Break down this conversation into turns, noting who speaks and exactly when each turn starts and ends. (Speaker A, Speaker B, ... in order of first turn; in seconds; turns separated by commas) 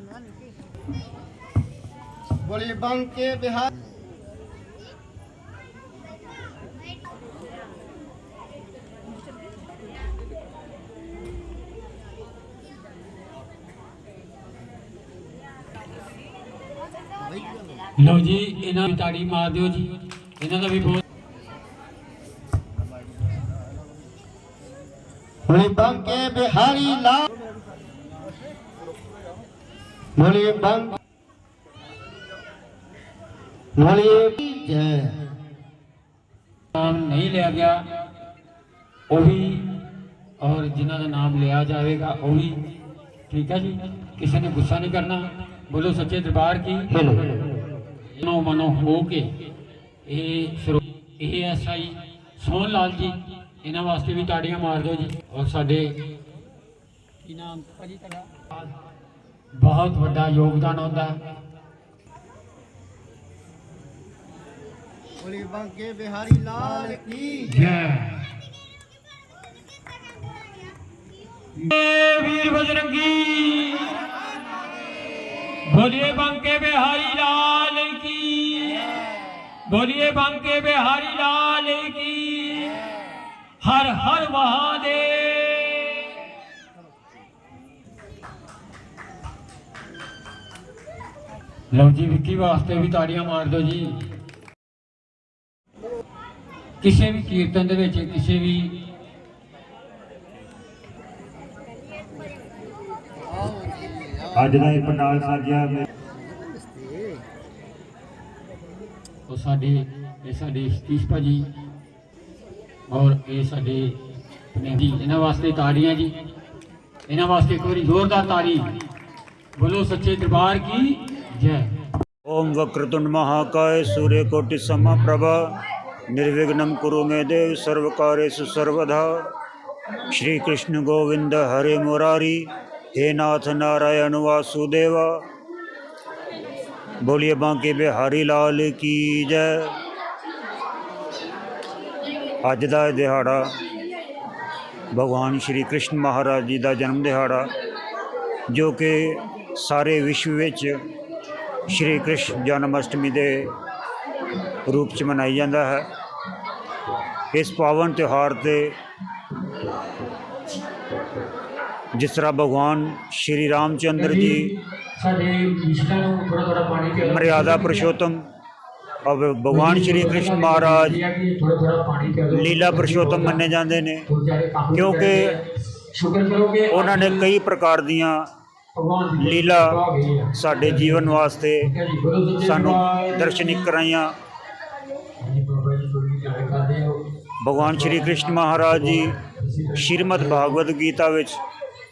Speaker A: 2.4-3.7, Speaker B: 18.0-21.0, Speaker A: 25.5-27.3, Speaker A: 30.2-31.0, Speaker A: 33.8-35.2, Speaker B: 36.7-37.8, Speaker B: 39.1-39.7, Speaker B: 40.4-42.6, Speaker B: 43.3-47.0, Speaker B: 48.1-49.3, Speaker B: 50.0-56.0, Speaker B: 57.2-58.3, Speaker B: 59.5-61.2, Speaker A: 65.2-67.5, Speaker B: 67.5-68.1, Speaker B: 71.6-74.0, Speaker B: 75.7-79.0, Speaker B: 79.7-82.8, Speaker B: 83.6-86.1, Speaker B: 91.7-94.0, Speaker B: 96.8-98.7, Speaker C: 104.3-105.8, Speaker B: 109.3-111.5, Speaker B: 112.9-114.0, Speaker B: 114.5-116.1, Speaker B: 117.1-118.7, Speaker B: 119.6-121.7, Speaker C: 122.2-125.6, Speaker C: 126.1-129.2, Speaker C: 130.1-135.1, Speaker C: 137.0-139.7, Speaker C: 142.4-143.5, Speaker C: 144.9-147.5, Speaker C: 148.5-150.8, Speaker C: 151.7-153.5, Speaker C: 154.7-155.9, Speaker C: 157.3-158.7, Speaker C: 162.0-164.4, Speaker B: 163.9-167.9, Speaker C: 167.0-168.3, Speaker C: 169.1-171.0, Speaker B: 169.5-173.4, Speaker C: 172.3-174.0, Speaker B: 174.1-175.4, Speaker C: 174.7-175.3, Speaker B: 175.9-177.2, Speaker C: 176.7-178.3, Speaker B: 178.8-183.6, Speaker C: 179.2-179.8, Speaker C: 180.3-181.7, Speaker C: 182.4-184.1, Speaker B: 185.2-187.0, Speaker C: 187.4-189.1, Speaker B: 187.6-190.5, Speaker C: 189.8-191.4